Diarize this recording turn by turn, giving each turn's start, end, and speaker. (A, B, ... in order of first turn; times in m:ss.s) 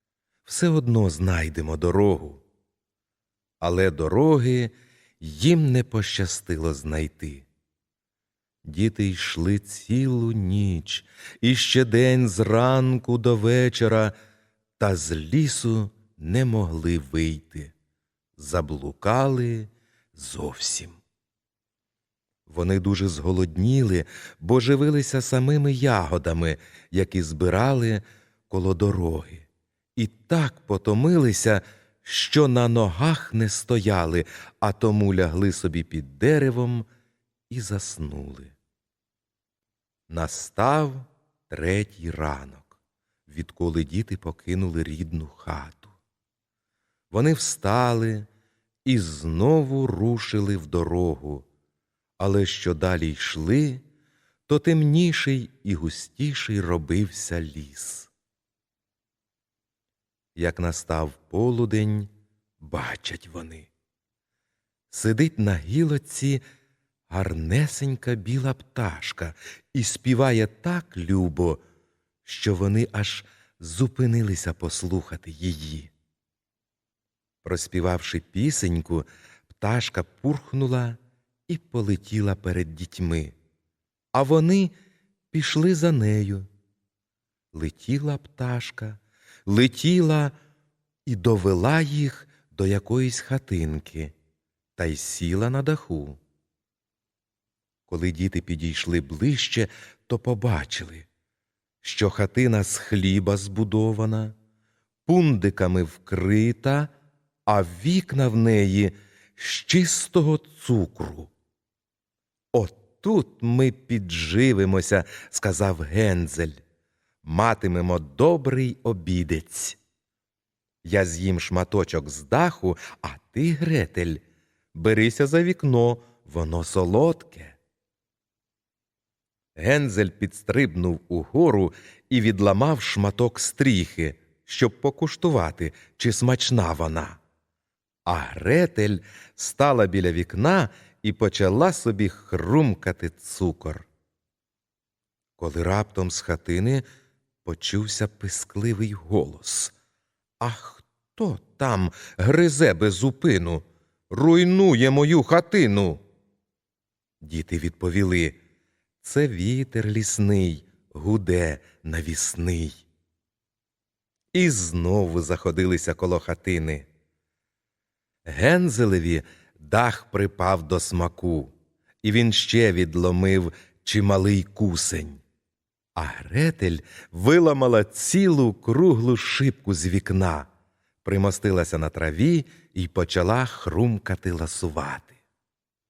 0:00.4-0:02.4 A
0:03.6-0:07.5 A
0:08.6-0:14.1 A
0:14.8-0:17.7 A
0:18.4-0:21.0 A
0:22.5-0:36.9 A
0:37.5-0:38.5 A
0:40.1-0:45.9 A
0:47.1-0:48.3 A
0:48.8-0:51.5 A
0:52.2-0:53.8 A
0:54.5-0:58.1 A
1:00.4-1:03.7 A
1:04.9-1:06.4 A
1:07.1-1:11.6 A
1:12.2-1:15.9 A
1:17.4-1:23.3 A
1:24.1-1:24.7 A
1:25.3-1:26.5 A
1:27.5-1:30.3 A
1:31.0-1:34.1 A
1:34.8-1:36.2 A
1:37.9-1:41.1 A
1:41.8-1:44.3 A
1:45.0-1:46.9 A
1:47.5-1:51.3 A
1:52.5-1:56.6 A
1:57.2-1:59.8 A
2:00.8-2:07.6 A
2:09.6-2:17.2 A
2:18.0-2:23.9 A
2:25.4-2:26.8 A
2:27.4-2:29.7 A
2:30.4-2:36.0 A
2:37.2-2:38.4 A
2:39.0-2:42.8 A
2:44.3-2:46.9 A
2:48.2-2:55.2 A
2:56.0-3:00.5 A
3:01.0-3:05.2 A